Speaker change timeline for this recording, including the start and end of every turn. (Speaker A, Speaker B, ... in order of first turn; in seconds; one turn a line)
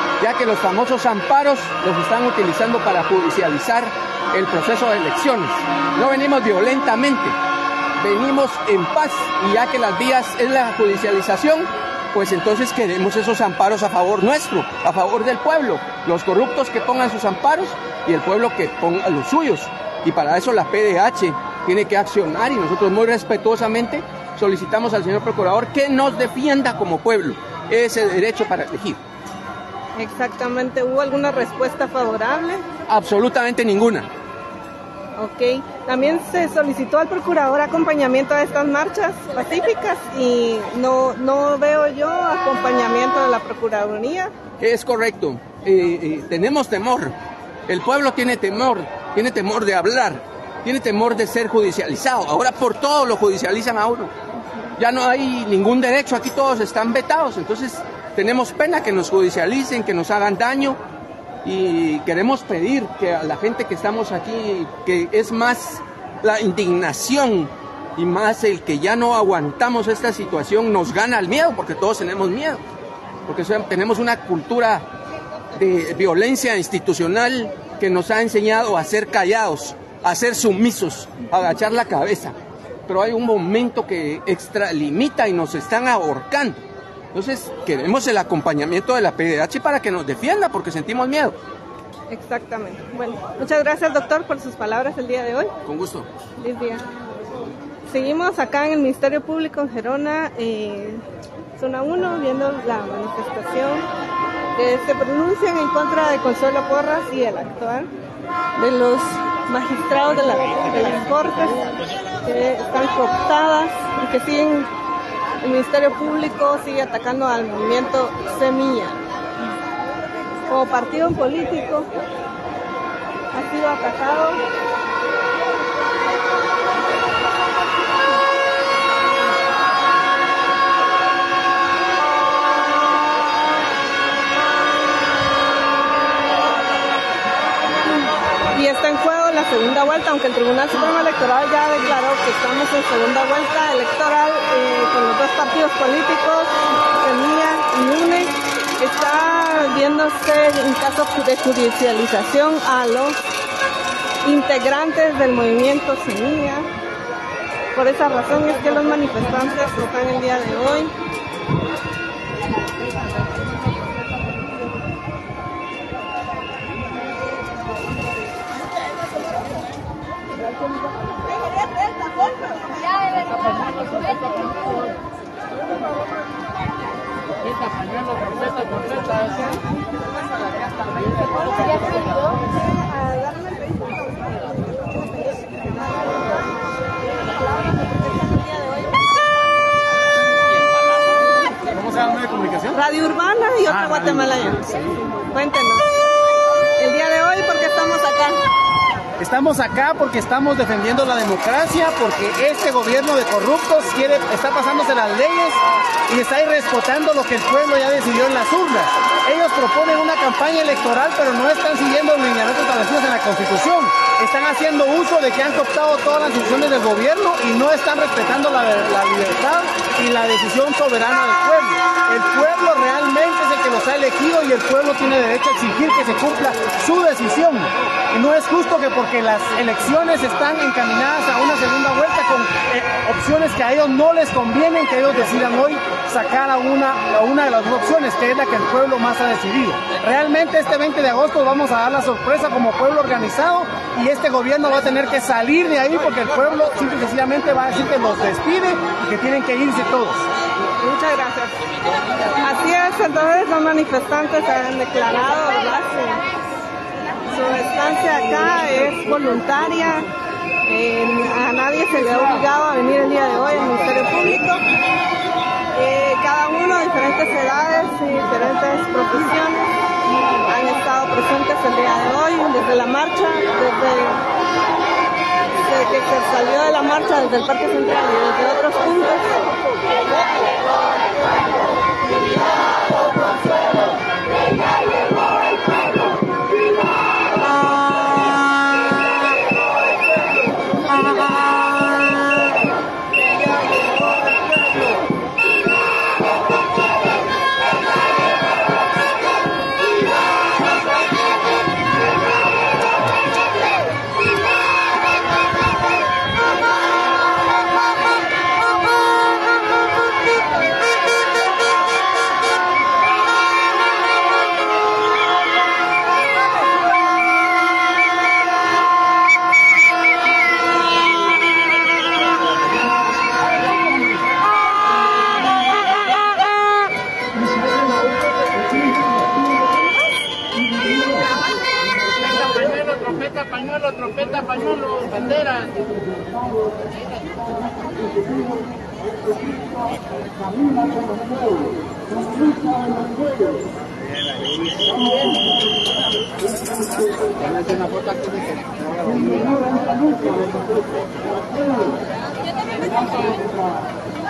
Speaker A: 0.2-7.4
Speaker A: 8.0-29.0
Speaker B: 30.0-32.6
Speaker A: 32.9-34.1
Speaker B: 35.2-44.3
Speaker A: 44.6-47.1
Speaker A: 47.7-54.1
Speaker A: 54.8-60.8
Speaker A: 61.4-72.6
Speaker A: 73.3-74.8
Speaker A: 75.5-82.3
Speaker A: 82.9-86.6
Speaker A: 87.1-91.4
Speaker B: 92.1-95.5
Speaker A: 95.7-96.1
Speaker B: 96.4-96.8
Speaker B: 97.9-101.0
Speaker B: 101.6-103.9
Speaker B: 104.6-107.9
Speaker B: 108.6-114.7
Speaker B: 115.4-119.0
Speaker B: 120.5-121.9
Speaker B: 123.3-124.4
Speaker B: 138.5-153.2
Speaker B: 154.2-156.7
Speaker B: 157.8-160.9
Speaker B: 182.8-183.9
Speaker B: 187.7-188.7
Speaker C: 191.6-192.8
Speaker B: 192.7-194.7
Speaker C: 193.7-194.9
Speaker B: 195.3-195.9
Speaker B: 196.8-198.4
Speaker C: 199.2-250.2
Speaker B: 250.8-251.6
Speaker B: 252.4-256.2
Speaker B: 257.3-260.1
Speaker B: 260.7-264.6
Speaker B: 265.8-269.7
Speaker B: 270.5-274.2
Speaker B: 275.6-279.3